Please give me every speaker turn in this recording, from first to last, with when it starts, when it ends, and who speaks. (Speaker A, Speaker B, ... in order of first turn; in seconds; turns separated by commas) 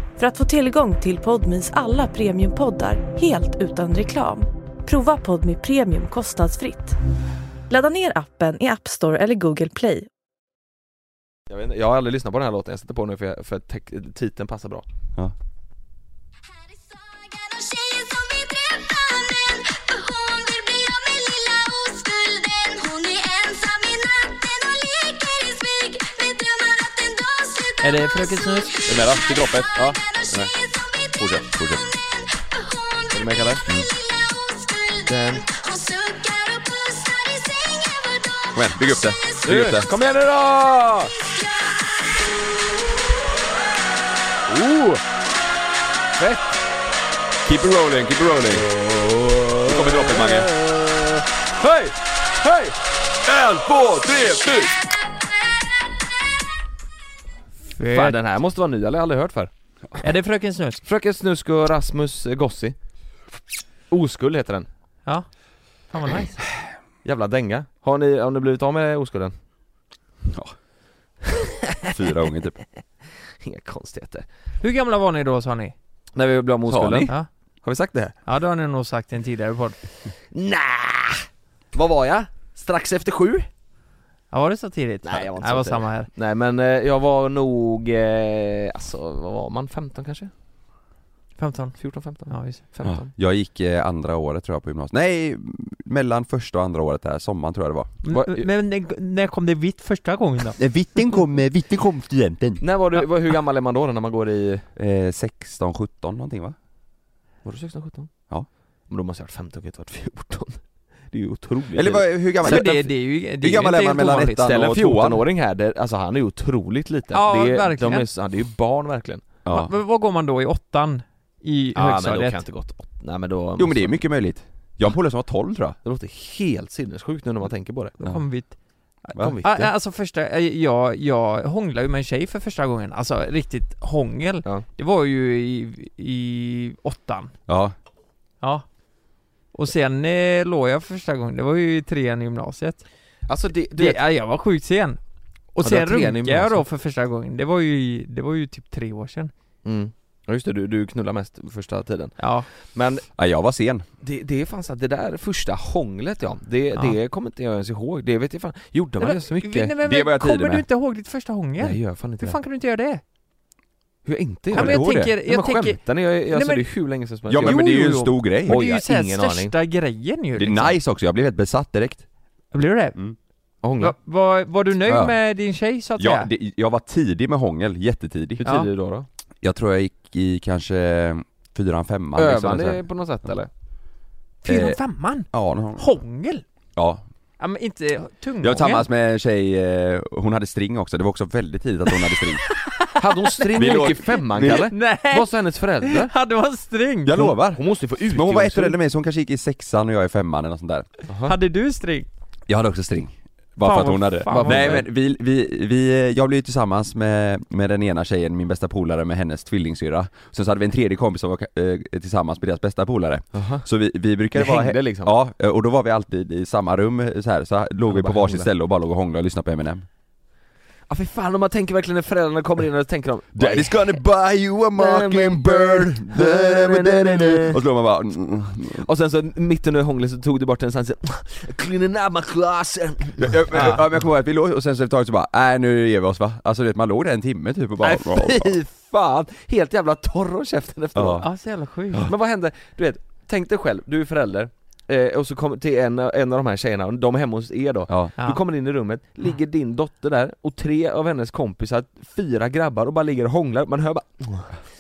Speaker A: 0.2-7.0, Speaker A: 7.7-10.1, Speaker B: 11.5-14.8, Speaker C: 16.5-31.4, Speaker D: 27.8-28.7, Speaker B: 28.9-30.5, Speaker E: 31.2-31.8, Speaker C: 32.5-39.5, Speaker B: 33.1-33.6, Speaker B: 35.1-35.4, Speaker E: 38.5-39.9, Speaker B: 39.4-41.1, Speaker C: 41.2-42.2, Speaker B: 44.5-45.0, Speaker B: 46.2-46.5, Speaker E: 47.4-48.7, Speaker B: 48.7-52.8, Speaker E: 49.6-50.6, Speaker E: 53.3-54.5, Speaker B: 53.3-54.6, Speaker D: 57.7-58.2, Speaker B: 57.9-59.5, Speaker D: 60.0-60.8, Speaker B: 60.8-62.8, Speaker B: 63.9-64.7, Speaker D: 65.9-66.5, Speaker B: 67.0-69.3, Speaker E: 70.2-70.5, Speaker B: 71.3-71.9, Speaker E: 71.9-72.6, Speaker B: 73.4-74.3, Speaker D: 74.6-75.7, Speaker B: 76.2-78.2, Speaker E: 76.7-77.1, Speaker D: 78.3-79.8, Speaker B: 80.3-83.5, Speaker D: 84.3-86.1, Speaker B: 85.0-90.3, Speaker D: 91.4-92.6, Speaker B: 91.8-93.1, Speaker E: 92.9-98.0, Speaker D: 98.0-100.6, Speaker B: 98.1-98.5, Speaker E: 100.6-102.6, Speaker B: 102.6-104.7, Speaker E: 104.8-106.6, Speaker B: 107.5-108.1, Speaker B: 108.9-112.8, Speaker E: 111.7-115.2, Speaker D: 112.4-114.6, Speaker B: 114.4-119.3, Speaker D: 117.1-118.1, Speaker E: 119.5-119.7, Speaker D: 119.5-122.4, Speaker B: 121.8-124.0, Speaker E: 123.6-125.8, Speaker B: 125.8-128.0, Speaker D: 128.0-137.3, Speaker B: 129.2-129.7, Speaker E: 137.5-137.8, Speaker D: 139.5-142.8, Speaker B: 143.3-144.0, Speaker D: 143.8-145.0, Speaker D: 145.6-149.3, Speaker B: 145.6-146.6, Speaker B: 149.7-152.1, Speaker D: 152.2-152.5, Speaker B: 152.7-153.1, Speaker E: 153.2-153.8, Speaker B: 154.0-159.8, Speaker D: 159.0-163.0, Speaker E: 159.8-160.6, Speaker B: 161.6-162.4, Speaker B: 164.1-167.9, Speaker D: 164.5-166.7, Speaker E: 164.5-165.1, Speaker E: 167.3-168.6, Speaker D: 167.4-170.8, Speaker B: 168.5-169.5, Speaker E: 170.4-172.0, Speaker D: 172.5-173.0, Speaker B: 173.6-173.9, Speaker D: 173.8-176.3, Speaker E: 174.9-175.2, Speaker E: 176.0-178.4, Speaker B: 178.4-179.1, Speaker E: 179.4-182.8, Speaker B: 182.2-183.5, Speaker D: 184.4-186.4, Speaker E: 184.4-184.8, Speaker E: 185.3-185.8, Speaker E: 186.8-187.0, Speaker D: 187.4-188.9, Speaker E: 188.4-192.4, Speaker D: 192.4-193.6, Speaker B: 193.0-196.1, Speaker E: 193.5-194.7, Speaker D: 194.4-195.3, Speaker D: 195.8-197.3, Speaker E: 197.1-200.9, Speaker B: 197.5-198.8, Speaker B: 201.1-201.3, Speaker D: 201.2-202.1, Speaker E: 202.5-219.9, Speaker D: 203.6-204.8, Speaker B: 204.3-204.8, Speaker B: 213.3-213.7, Speaker B: 214.3-215.1, Speaker B: 217.9-218.5, Speaker B: 220.9-224.0, Speaker E: 223.3-228.9, Speaker B: 224.8-227.6, Speaker B: 228.7-233.8, Speaker E: 233.2-238.6, Speaker B: 237.8-241.3, Speaker E: 240.9-241.3, Speaker D: 241.2-242.1, Speaker B: 242.1-254.6, Speaker E: 247.9-248.1